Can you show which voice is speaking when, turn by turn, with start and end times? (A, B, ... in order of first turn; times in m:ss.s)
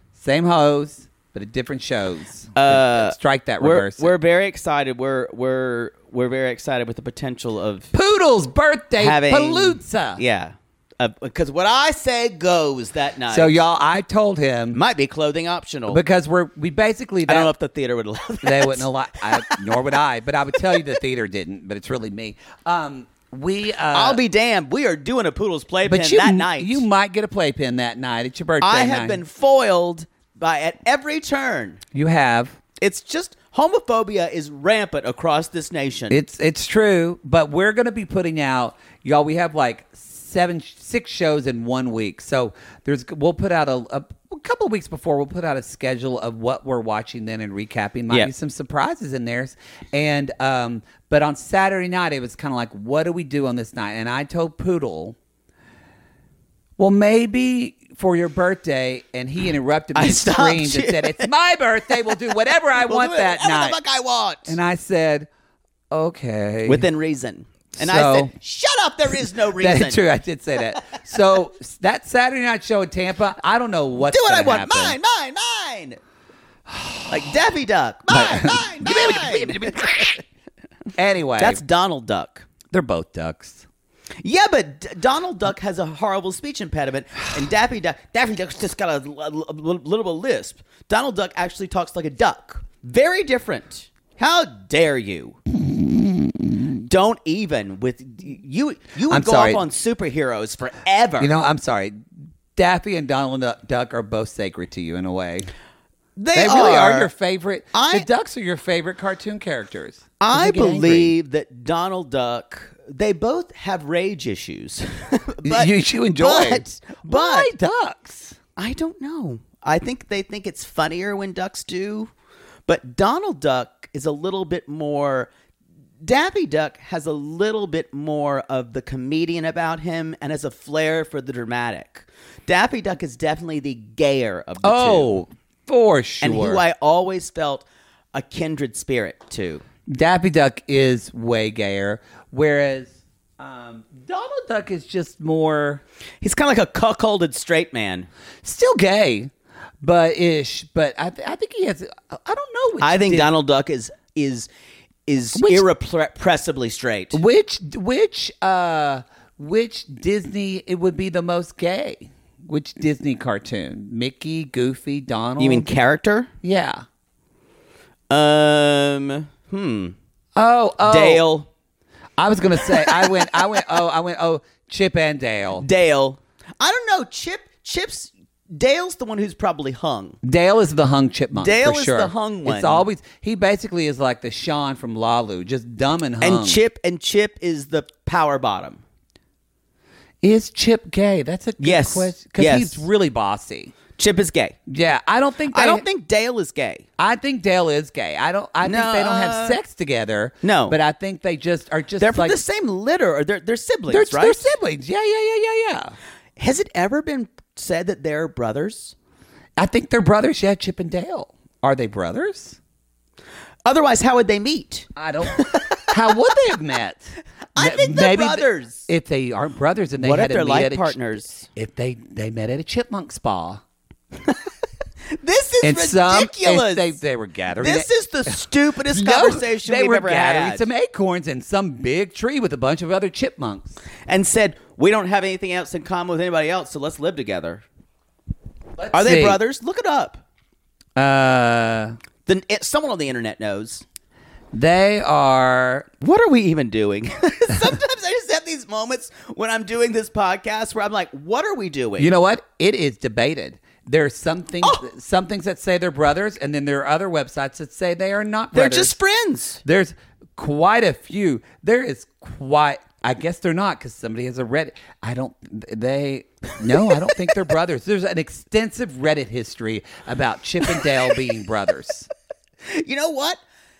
0:00.1-0:04.1 A
0:02.5-0:07.9 B
0:07.9-0:10.2 A
0:09.0-0:13.6 B
0:13.3-0:14.8 A
0:14.7-0:16.0 B
0:15.9-0:17.5 A
0:17.2-0:19.6 B
0:18.4-0:24.2 A
0:23.9-0:26.8 B
0:25.8-0:29.2 A
0:28.6-0:31.8 B
0:31.9-0:32.6 A
0:32.8-0:36.2 B
0:36.1-0:55.2 A
0:56.8-1:03.8 A
0:59.9-1:01.3 B
1:02.1-1:04.6 B
1:04.4-1:05.3 A
1:05.9-1:06.8 A
1:06.6-1:10.0 B
1:07.7-1:08.3 A
1:09.6-1:15.0 A
1:14.1-1:16.0 B
1:16.7-1:17.0 A
1:17.1-1:19.8 B
1:18.1-1:20.2 A
1:20.9-1:21.6 A
1:21.4-1:22.4 B
1:22.7-1:23.6 A
1:24.2-1:35.4 B
1:35.6-1:36.8 A
1:36.8-1:41.3 B
1:39.1-1:39.6 A
1:41.2-1:45.5 A
1:46.2-1:47.1 B
1:46.3-1:51.1 A
1:47.7-1:48.1 B
1:50.2-1:57.5 B
1:55.4-1:58.4 A
1:58.6-2:02.1 B
2:02.7-2:05.3 B
2:06.0-2:15.1 B
2:14.6-2:16.6 A
2:16.2-2:19.6 B
2:19.9-2:25.8 A
2:26.2-2:28.1 B
2:28.4-2:33.3 A
2:32.8-2:34.5 B
2:35.1-2:37.2 B
2:35.3-2:35.6 A
2:37.1-2:45.7 A
2:45.4-2:46.3 B
2:46.4-2:46.8 A
2:48.1-2:50.0 B
2:50.3-2:51.2 A
2:50.8-2:51.5 B
2:52.2-2:55.6 A
2:55.6-3:00.2 B
3:00.2-3:06.6 A
3:01.4-3:02.8 B
3:06.2-3:08.8 B
3:10.2-3:13.7 A
3:11.6-3:12.8 B
3:14.0-3:14.6 B
3:14.7-3:15.8 A
3:15.5-3:16.8 B
3:17.0-3:22.4 A
3:18.6-3:19.6 B
3:20.4-3:20.8 B
3:22.0-3:24.5 B
3:23.9-3:25.9 A
3:26.4-3:28.9 B
3:29.6-3:32.6 A
3:33.6-3:35.9 B
3:35.0-3:43.6 A
3:37.5-3:38.9 B
3:40.0-3:41.5 B
3:45.1-3:47.0 B
3:45.6-3:53.8 A
3:47.6-3:50.7 B
3:54.1-3:57.6 B
3:58.8-3:59.4 A
3:58.9-4:00.2 B
4:01.0-4:02.0 A
4:02.2-4:03.8 B
4:04.5-4:05.9 A
4:06.0-4:12.1 B
4:12.0-4:18.9 A
4:18.5-4:19.6 B
4:19.6-4:32.1 A
4:32.6-4:33.4 B